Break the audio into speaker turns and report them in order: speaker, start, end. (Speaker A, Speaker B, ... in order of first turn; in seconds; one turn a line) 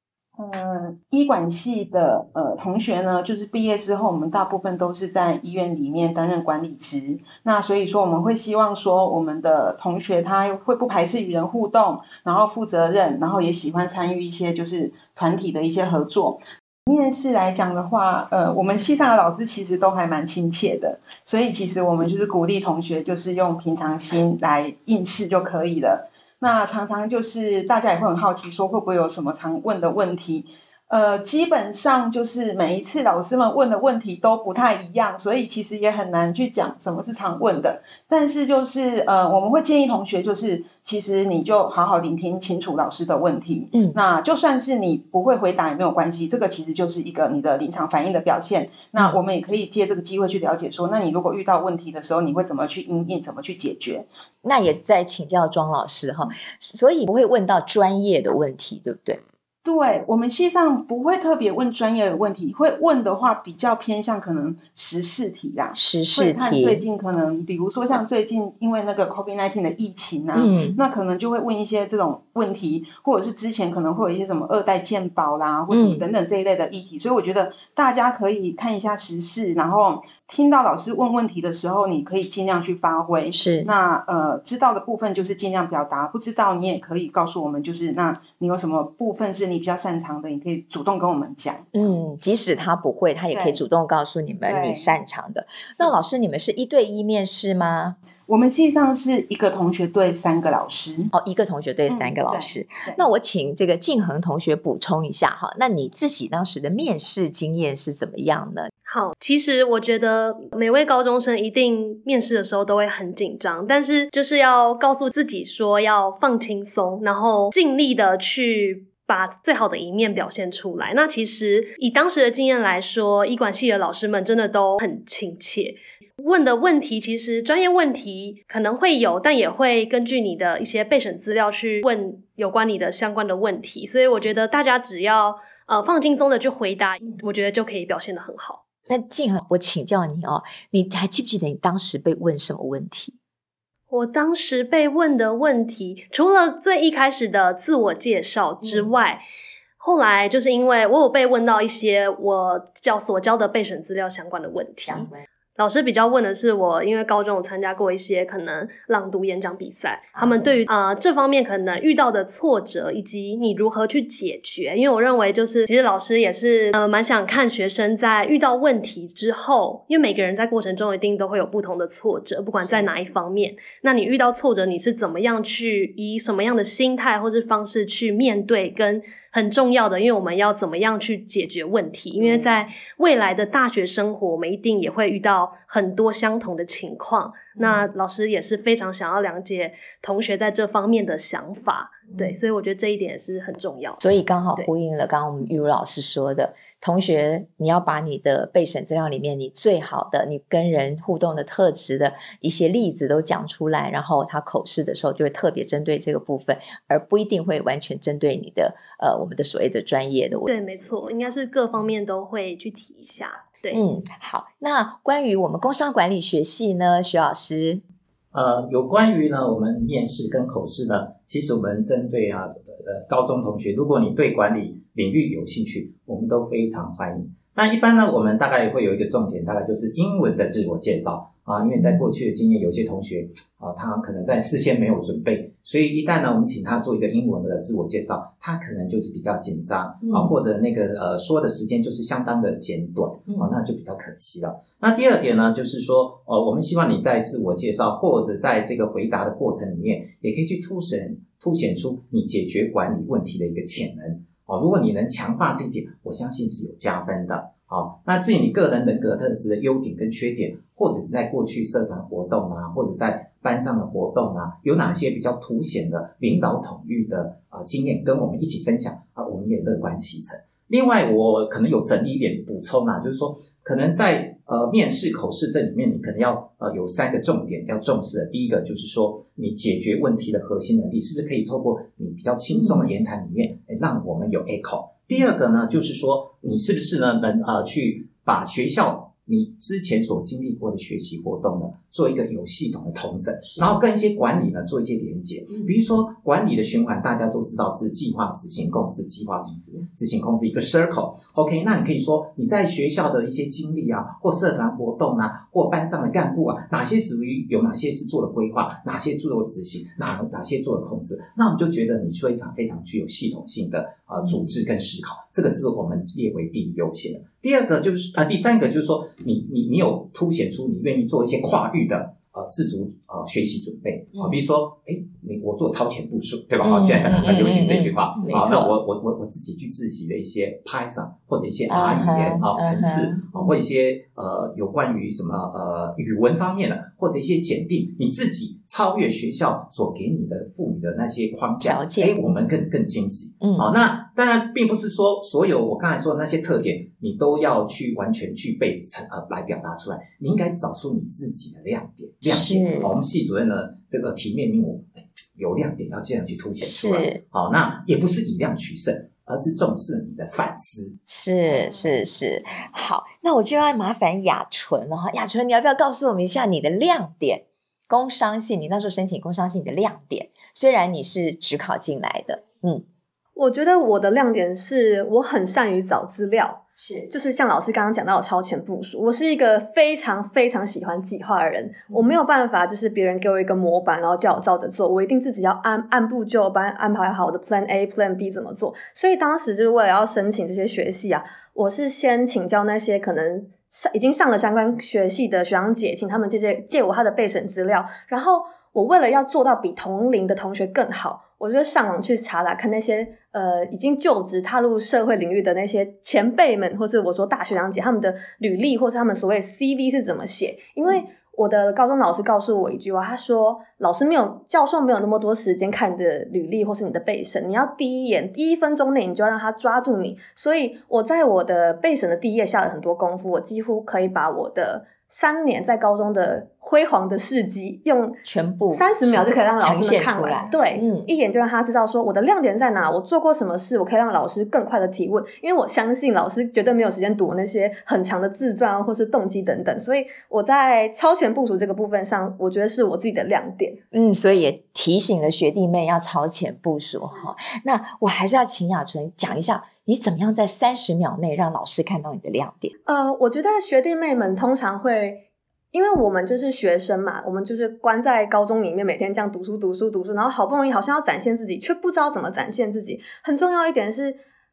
Speaker A: 0.4-54.1
Speaker B: 43.7-44.0
Speaker B: 54.4-59.2
Speaker A: 59.6-91.7
Speaker B: 65.8-66.8
Speaker B: 70.3-70.8
Speaker B: 75.7-76.0
Speaker B: 83.3-83.7
Speaker B: 91.7-98.0
Speaker A: 93.3-93.6
Speaker A: 94.5-94.9
Speaker A: 98.3-101.1
Speaker B: 101.1-108.7
Speaker A: 101.9-103.0
Speaker C: 108.8-138.6
Speaker B: 138.9-143.2
Speaker C: 143.9-149.2
Speaker C: 149.8-194.0
Speaker B: 154.9-155.2
Speaker B: 160.2-160.5
Speaker A: 182.2-182.5
Speaker B: 194.0-210.5
Speaker C: 210.4-213.8
Speaker B: 213.7-217.8
Speaker D: 218.3-361.0
Speaker B: 231.8-232.1
Speaker B: 240.0-240.3
Speaker B: 326.6-328.7
Speaker B: 331.7-333.5
Speaker B: 341.6-342.2
Speaker B: 343.4-343.7
Speaker B: 352.2-352.9
Speaker B: 356.6-357.2
Speaker B: 361.1-372.8
Speaker E: 373.4-428.2
Speaker B: 376.8-377.0
Speaker B: 428.2-431.1
Speaker E: 428.7-443.8
Speaker B: 443.9-452.7
Speaker E: 452.9-464.2